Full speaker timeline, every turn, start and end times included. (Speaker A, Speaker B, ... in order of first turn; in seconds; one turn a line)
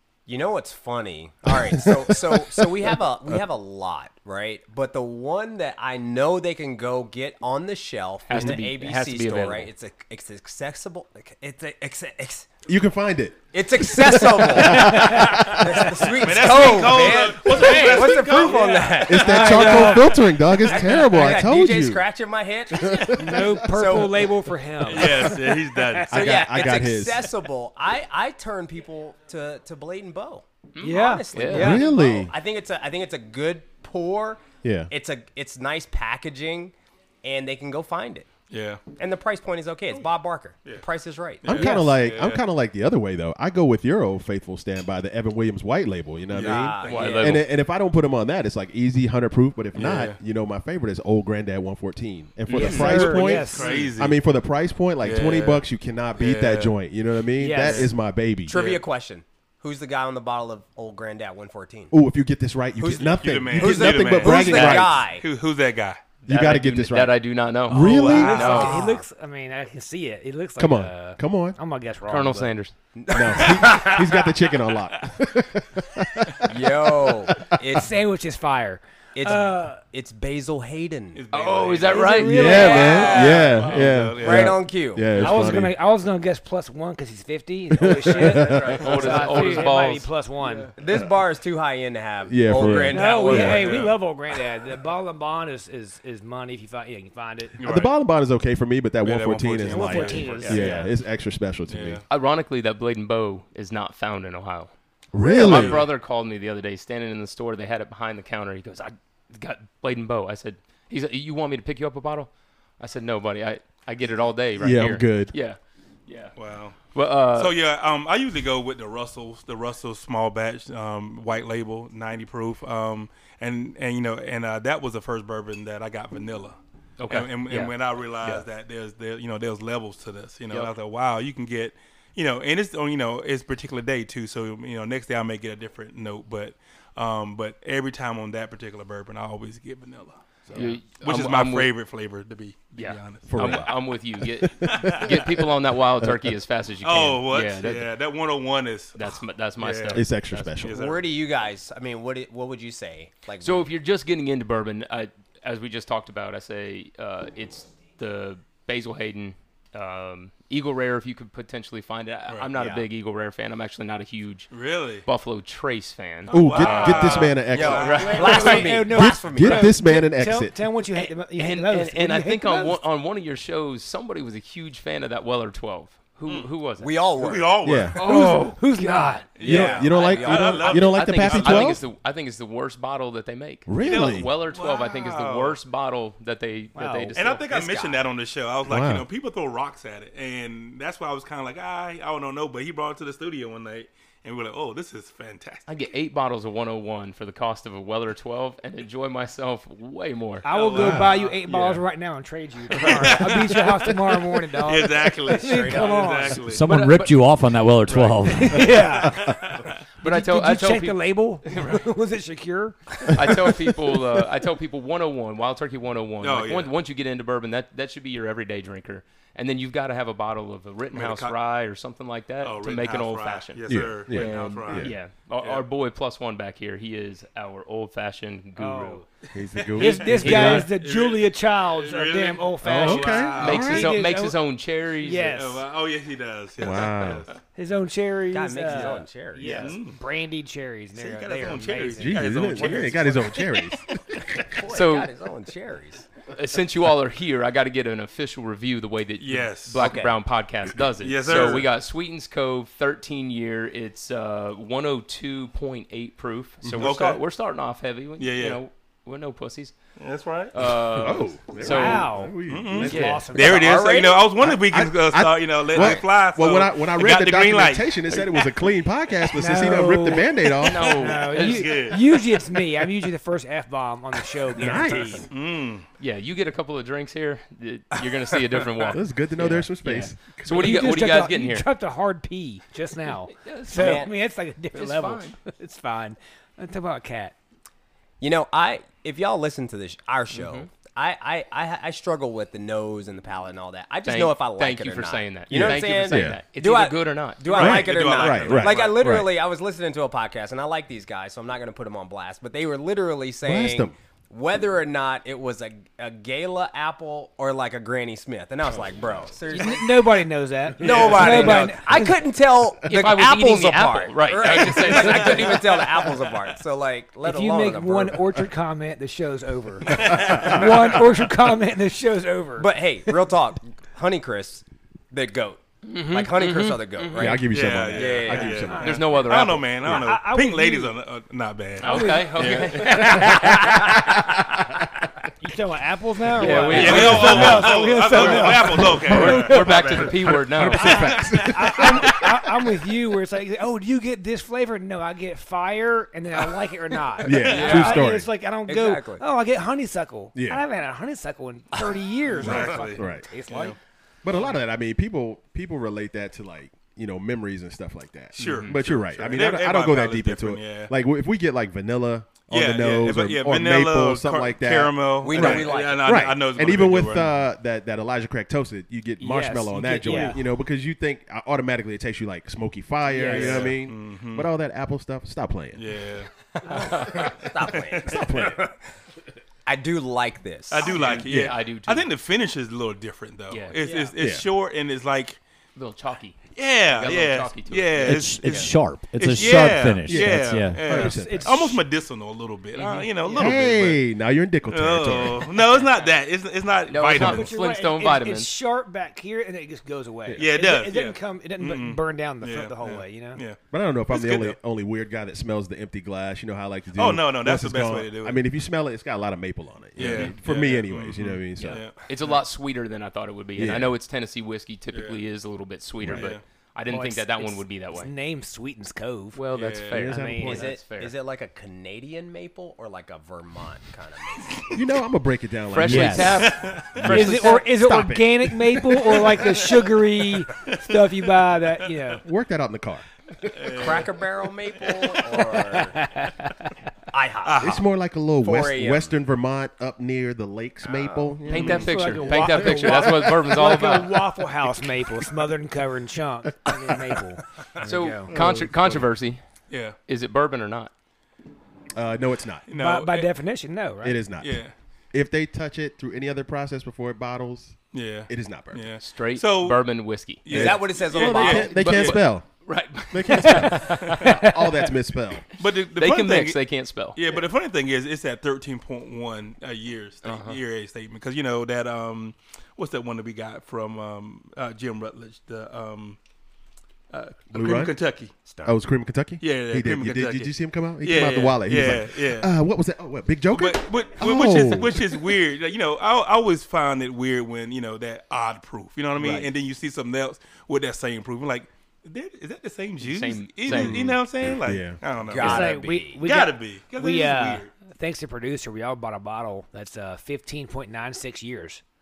Speaker A: 0.3-12.5
Speaker B: 1.5-3.4
Speaker C: 8.3-9.7
Speaker B: 12.7-15.8
Speaker A: 13.5-20.0
Speaker D: 14.6-15.6
Speaker E: 16.2-19.2
Speaker C: 17.6-17.9
Speaker B: 19.0-22.0
Speaker D: 19.2-21.3
Speaker A: 20.7-24.3
Speaker B: 22.7-23.8
Speaker D: 23.1-26.1
Speaker E: 24.8-26.1
Speaker B: 26.1-27.3
Speaker A: 26.1-38.3
Speaker C: 30.7-31.8
Speaker D: 30.8-31.9
Speaker B: 31.5-32.3
Speaker B: 34.6-34.9
Speaker E: 38.5-38.8
Speaker A: 39.0-41.5
Speaker E: 41.4-42.4
Speaker B: 41.4-58.5
Speaker D: 41.5-41.9
Speaker E: 46.3-47.1
Speaker A: 46.3-47.4
Speaker C: 46.8-47.5
Speaker E: 49.7-50.2
Speaker C: 52.5-53.1
Speaker D: 52.5-53.9
Speaker E: 52.5-54.2
Speaker E: 55.0-55.6
Speaker E: 56.1-56.7
Speaker D: 57.4-57.9
Speaker E: 57.6-57.9
Speaker A: 58.5-61.9
Speaker E: 58.5-58.8
Speaker B: 61.9-65.0
Speaker A: 62.8-65.2
Speaker E: 62.9-66.0
Speaker C: 66.2-68.8
Speaker B: 66.2-68.5
Speaker E: 67.7-68.8
Speaker D: 68.0-72.5
Speaker A: 68.5-69.0
Speaker B: 70.6-71.6
Speaker C: 72.1-72.7
Speaker A: 72.9-74.0
Speaker B: 73.1-77.6
Speaker E: 73.6-73.9
Speaker A: 76.5-77.9
Speaker D: 77.7-79.8
Speaker A: 79.1-81.2
Speaker E: 81.1-84.6
Speaker C: 81.3-83.9
Speaker D: 81.9-83.4
Speaker B: 82.2-85.8
Speaker A: 84.2-85.1
Speaker D: 85.1-90.7
Speaker E: 85.2-85.6
Speaker B: 87.7-89.0
Speaker C: 88.4-90.6
Speaker E: 88.5-89.6
Speaker A: 90.8-93.8
Speaker B: 92.2-93.7
Speaker D: 92.9-97.6
Speaker E: 93.2-94.0
Speaker E: 97.6-97.9
Speaker B: 97.6-102.0
Speaker E: 99.0-100.9
Speaker D: 99.6-100.9
Speaker C: 100.4-100.8
Speaker E: 101.7-102.0
Speaker C: 102.1-104.7
Speaker B: 105.1-105.8
Speaker C: 105.3-117.5
Speaker E: 105.4-105.9
Speaker B: 114.6-115.3
Speaker E: 116.3-143.7
Speaker C: 127.0-128.4
Speaker B: 140.5-140.8
Speaker C: 140.5-141.7
Speaker C: 142.7-147.9
Speaker B: 143.2-145.3
Speaker E: 144.6-145.3
Speaker B: 146.0-146.3
Speaker E: 146.8-150.1
Speaker C: 148.9-150.5
Speaker B: 149.9-150.8
Speaker E: 150.6-151.1
Speaker A: 150.7-153.7
Speaker C: 153.4-164.5
Speaker A: 162.6-162.8
Speaker E: 164.5-165.0
Speaker C: 165.0-168.8
Speaker E: 166.3-168.6
Speaker B: 166.3-168.1
Speaker D: 166.4-167.1
Speaker A: 167.5-169.8
Speaker D: 167.8-172.8
Speaker B: 168.8-170.6
Speaker C: 170.9-176.9
Speaker E: 176.2-176.5
Speaker A: 176.8-177.6
Speaker E: 177.1-178.5
Speaker B: 177.6-178.0
Speaker C: 177.9-179.5
Speaker D: 178.0-179.3
Speaker E: 179.3-181.8
Speaker A: 179.4-180.9
Speaker B: 179.4-181.8
Speaker C: 180.7-187.9
Speaker B: 183.7-184.3
Speaker E: 183.8-185.6
Speaker D: 186.7-187.6
Speaker E: 187.1-195.7
Speaker B: 188.7-189.1
Speaker C: 195.7-200.5
Speaker D: 200.4-206.4
Speaker E: 200.5-201.8
Speaker B: 200.8-201.1
Speaker E: 202.7-206.7
Speaker A: 205.3-206.3
Speaker F: 206.4-208.8
Speaker C: 206.7-207.3
Speaker D: 208.2-209.4
Speaker E: 208.9-209.8
Speaker B: 209.0-209.6
Speaker C: 210.0-211.8
Speaker D: 210.0-213.7
Speaker C: 213.1-229.0
Speaker E: 216.2-216.7
Speaker E: 220.9-221.4
Speaker E: 222.4-225.6
Speaker B: 223.7-224.9
Speaker D: 228.6-229.0
Speaker B: 229.3-230.7
Speaker E: 229.5-233.9
Speaker D: 229.8-234.4
Speaker C: 230.1-230.7
Speaker B: 232.6-233.9
Speaker C: 233.4-235.4
Speaker D: 235.0-235.6
Speaker E: 235.3-237.4
Speaker B: 236.6-237.2
Speaker D: 237.5-242.9
Speaker A: 238.3-239.7
Speaker E: 239.4-240.0
Speaker E: 240.9-243.5
Speaker B: 242.0-244.5
Speaker A: 244.4-246.1
Speaker C: 244.7-245.1
Speaker C: 246.3-259.7
Speaker E: 249.2-249.8
Speaker A: 249.8-250.2
Speaker E: 251.0-251.7
Speaker B: 256.6-257.0
Speaker E: 256.8-257.2
Speaker E: 258.2-258.6
Speaker E: 260.0-260.9
Speaker C: 260.5-262.1
Speaker B: 260.9-263.3
Speaker D: 261.6-263.9
Speaker E: 262.4-268.4
Speaker C: 262.8-263.3
Speaker A: 263.4-264.3
Speaker B: 264.4-271.2
Speaker D: 269.3-275.3
Speaker C: 270.6-271.9
Speaker E: 271.3-272.2
Speaker B: 274.5-275.2
Speaker E: 275.3-275.9
Speaker C: 276.0-281.7
Speaker B: 278.9-280.9
Speaker D: 280.4-287.3
Speaker C: 283.3-284.1
Speaker A: 283.7-284.1
Speaker C: 284.7-285.4
Speaker A: 288.2-310.2
Speaker C: 290.3-290.7
Speaker C: 294.0-297.4
Speaker B: 295.5-296.4
Speaker E: 297.4-299.1
Speaker B: 297.5-299.3
Speaker B: 303.4-303.9
Speaker D: 309.5-312.2
Speaker A: 310.8-318.2
Speaker E: 310.8-311.7
Speaker C: 312.9-315.8
Speaker E: 314.7-316.0
Speaker D: 317.2-322.7
Speaker E: 319.9-321.0
Speaker B: 320.1-320.6
Speaker A: 322.6-328.7
Speaker C: 325.8-327.4
Speaker B: 327.1-329.1
Speaker E: 327.5-333.4
Speaker D: 328.7-329.0
Speaker C: 328.8-329.7
Speaker D: 329.8-330.9
Speaker C: 331.8-333.6
Speaker D: 331.8-334.0
Speaker D: 335.4-340.1
Speaker C: 336.3-338.4
Speaker E: 336.6-340.1
Speaker B: 339.1-339.3
Speaker C: 339.1-341.1
Speaker B: 340.0-342.4
Speaker D: 340.7-353.7
Speaker E: 340.9-342.1
Speaker B: 347.2-348.3
Speaker C: 347.4-348.1
Speaker A: 348.6-349.2
Speaker B: 350.3-350.6
Speaker E: 352.3-353.8
Speaker B: 352.4-353.3
Speaker B: 354.2-375.9
Speaker E: 358.3-360.9
Speaker C: 358.4-358.8
Speaker E: 362.5-367.3
Speaker A: 365.2-366.2
Speaker D: 369.2-370.4
Speaker D: 373.1-373.7
Speaker E: 373.3-374.5
Speaker E: 375.7-376.3
Speaker A: 376.6-378.8
Speaker C: 376.8-377.3
Speaker E: 377.0-378.1
Speaker B: 377.9-378.6
Speaker A: 379.6-381.0
Speaker E: 380.7-385.4
Speaker C: 380.8-382.1
Speaker C: 383.5-383.8
Speaker A: 383.8-384.1
Speaker B: 384.2-384.5
Speaker C: 385.7-388.7
Speaker E: 386.5-394.0
Speaker F: 388.0-391.0
Speaker B: 390.1-391.8
Speaker D: 390.9-391.8
Speaker C: 392.7-393.5
Speaker B: 393.3-395.5
Speaker E: 394.7-397.6
Speaker C: 396.9-398.5
Speaker D: 397.1-403.4
Speaker E: 400.4-404.6
Speaker B: 403.7-411.8
Speaker E: 406.9-408.4
Speaker E: 409.9-412.4
Speaker C: 410.0-410.3
Speaker C: 411.6-418.1
Speaker B: 413.6-413.9
Speaker E: 414.9-415.2
Speaker B: 416.0-416.3
Speaker E: 416.1-416.4
Speaker D: 416.9-419.4
Speaker C: 419.3-421.1
Speaker E: 419.5-419.9
Speaker B: 419.9-420.7
Speaker D: 419.9-420.6
Speaker A: 420.4-424.8
Speaker B: 424.7-429.2
Speaker C: 425.7-427.7
Speaker F: 425.8-426.4
Speaker E: 426.4-427.0
Speaker D: 427.1-432.2
Speaker E: 429.1-429.9
Speaker E: 430.5-432.2
Speaker B: 432.2-433.5
Speaker E: 433.5-434.2
Speaker A: 433.7-436.0
Speaker E: 434.8-435.4
Speaker D: 435.7-436.7
Speaker A: 437.1-437.8
Speaker E: 437.4-437.8
Speaker B: 437.6-441.9
Speaker A: 438.4-439.1
Speaker E: 440.9-441.9
Speaker C: 441.5-444.2
Speaker D: 441.6-448.3
Speaker C: 447.8-449.4
Speaker E: 448.3-449.1
Speaker B: 448.3-448.6
Speaker E: 449.7-449.9
Speaker C: 450.1-450.9
Speaker B: 451.9-452.6
Speaker E: 452.7-453.3
Speaker D: 452.7-454.3
Speaker B: 454.0-458.9
Speaker E: 454.4-454.7
Speaker E: 457.9-459.9
Speaker C: 459.0-460.4
Speaker E: 460.4-462.2
Speaker B: 460.5-462.5
Speaker A: 460.5-461.8
Speaker C: 461.4-464.4
Speaker B: 463.0-465.4
Speaker D: 463.5-464.6
Speaker E: 465.6-476.2
Speaker C: 465.9-467.2
Speaker C: 470.2-470.6
Speaker E: 477.1-478.3
Speaker B: 477.5-478.0
Speaker A: 478.5-478.7
Speaker B: 478.6-485.3
Speaker E: 479.4-482.5
Speaker E: 483.5-497.7
Speaker A: 489.2-489.5
Speaker C: 493.0-494.1
Speaker B: 493.7-495.0
Speaker A: 495.3-496.2
Speaker D: 495.4-501.8